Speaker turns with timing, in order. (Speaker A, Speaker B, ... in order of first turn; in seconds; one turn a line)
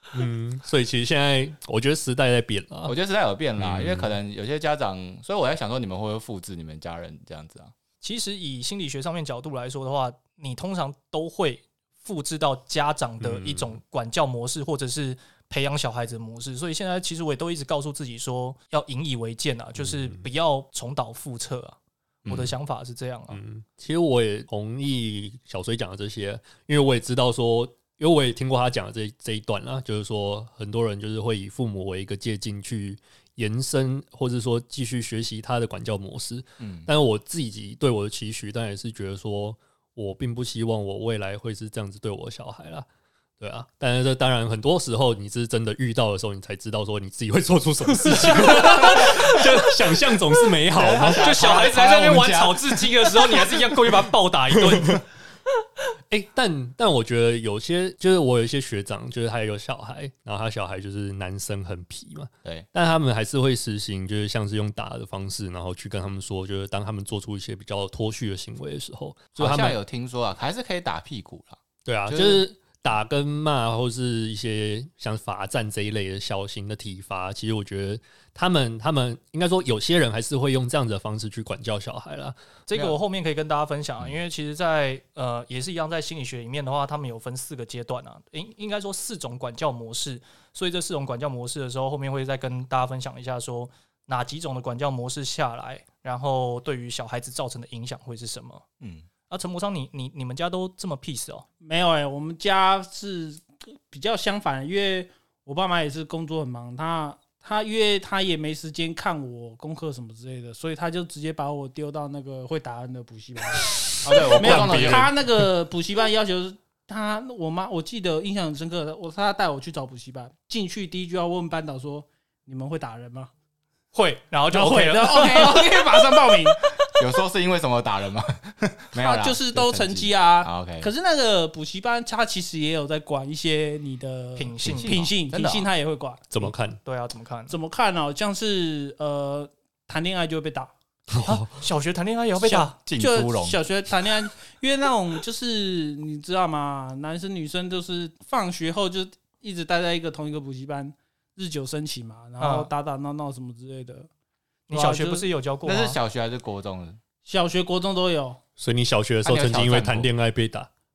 Speaker A: 0.1-2.9
Speaker B: 2.8-7.7
Speaker A: 3.6-4.1
Speaker C: 8.0-23.4
Speaker A: 13.2-13.7
Speaker A: 19.8-20.2
Speaker B: 22.2-22.5
Speaker A: 23.3-42.9
Speaker B: 36.6-36.9
Speaker A: 43.4-51.2
Speaker C: 48.1-49.1
Speaker B: 48.6-49.3
Speaker B: 50.7-53.4
Speaker C: 51.1-55.0
Speaker A: 56.1-69.8
Speaker B: 69.4-72.4
Speaker A: 71.8-82.3
Speaker C: 82.7-98.6
Speaker B: 98.8-99.0
Speaker C: 99.3-101.4
Speaker D: 101.6-123.3
Speaker B: 114.0-115.1
Speaker A: 114.3-115.1
Speaker C: 123.9-125.8
Speaker D: 124.5-126.7
Speaker B: 127.0-130.9
Speaker D: 129.0-136.3
Speaker C: 134.3-135.0
Speaker B: 134.6-135.7
Speaker A: 136.3-136.8
Speaker C: 136.8-137.5
Speaker D: 137.5-140.7
Speaker C: 141.2-142.7
Speaker B: 142.4-143.6
Speaker D: 142.8-154.1
Speaker C: 152.4-152.7
Speaker C: 154.7-156.0
Speaker D: 154.7-155.3
Speaker B: 155.6-157.0
Speaker D: 157.2-158.4
Speaker A: 158.6-160.7
Speaker B: 159.2-160.1